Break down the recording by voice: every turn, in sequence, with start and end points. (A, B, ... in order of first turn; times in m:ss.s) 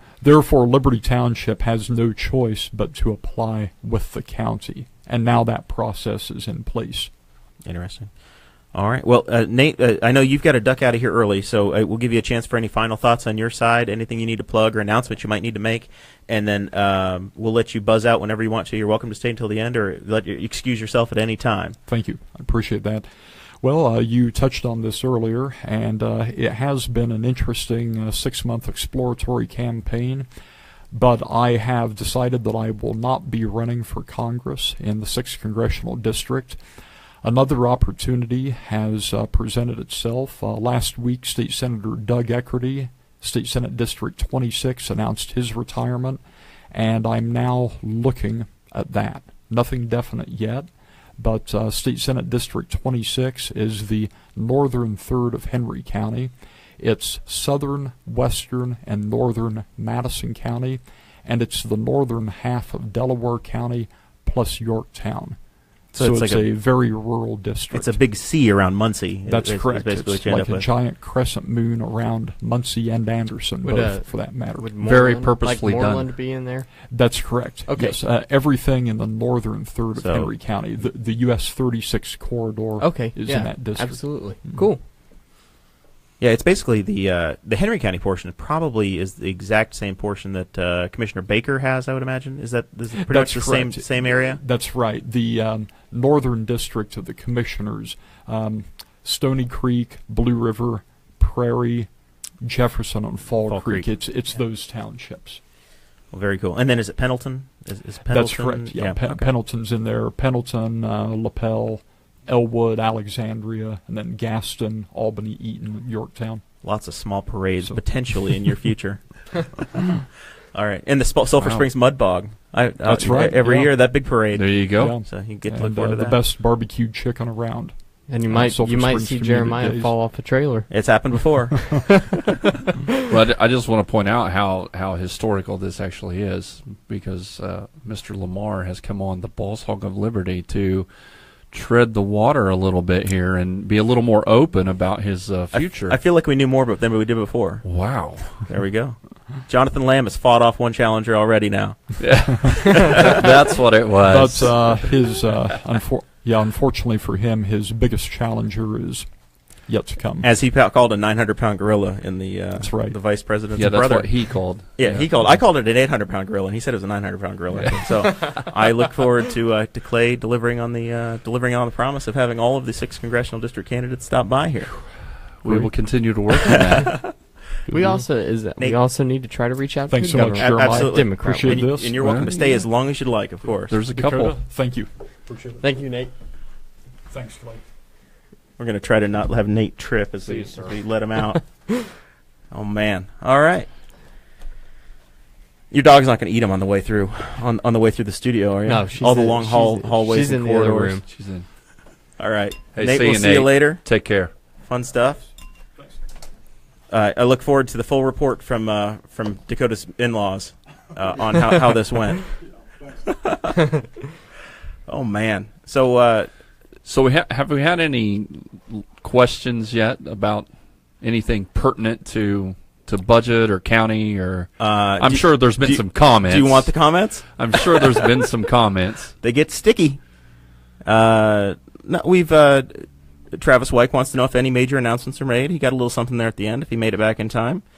0:00.2-0:07.1 A
0:07.6-0:21.8 B
0:21.9-0:23.1 A
0:23.6-0:30.3 A
0:30.9-0:36.6 A
0:37.2-0:46.2 A
0:46.7-1:05.4 A
1:05.9-1:08.0 A
1:05.9-1:06.5 B
1:07.7-1:10.7 B
1:09.3-1:14.7 A
1:13.6-1:16.9 C
1:14.8-1:16.2 D
1:16.9-1:24.6 A
1:17.7-1:18.0 C
1:20.0-1:20.3 B
1:22.8-1:24.8 C
1:26.2-1:34.4 B
1:33.0-1:41.9 A
1:42.4-1:45.4 A
1:43.5-1:43.9 B
1:46.1-1:49.3 B
1:48.1-1:56.4 A
1:56.6-1:59.5 B
2:00.5-2:06.2 B
2:02.8-2:03.8 A
2:04.3-2:05.0 D
2:04.8-2:09.9 A
2:08.1-2:11.2 C
2:10.7-2:12.0 B
2:13.1-2:20.9 D
2:21.5-2:26.0 D
2:25.5-2:27.6 B
2:27.6-2:28.5 D
2:28.5-2:31.8 B
2:32.0-2:35.0 D
2:32.7-2:33.3 B
2:34.1-2:40.3 A
2:40.2-2:44.1 B
2:42.6-2:43.0 A
2:43.5-2:45.4 D
2:44.8-2:54.8 B
2:47.6-2:47.9 D
2:55.4-2:57.1 D
2:55.4-2:55.7 A
2:56.4-2:57.0 B
2:57.7-2:58.0 A
2:57.7-3:01.6 C
2:59.9-3:02.1 A
3:00.1-3:03.8 B
3:02.0-3:02.5 D
3:03.7-3:04.4 D
3:03.9-3:05.6 A
3:05.6-3:06.1 C
3:07.1-3:07.6 A
3:08.6-3:11.7 B
3:10.2-3:10.8 D
3:12.5-3:13.7 B
3:15.7-3:21.0 B
3:18.7-3:21.0 C
3:21.0-3:21.4 D
3:22.2-3:23.8 B
3:22.7-3:24.3 D
3:24.6-3:25.3 B
3:26.9-3:32.3 B
3:33.1-3:33.5 B
3:34.9-3:36.3 B
3:36.8-3:49.1 D
3:44.6-3:47.9 B
3:49.2-3:50.0 B
3:50.8-3:57.6 B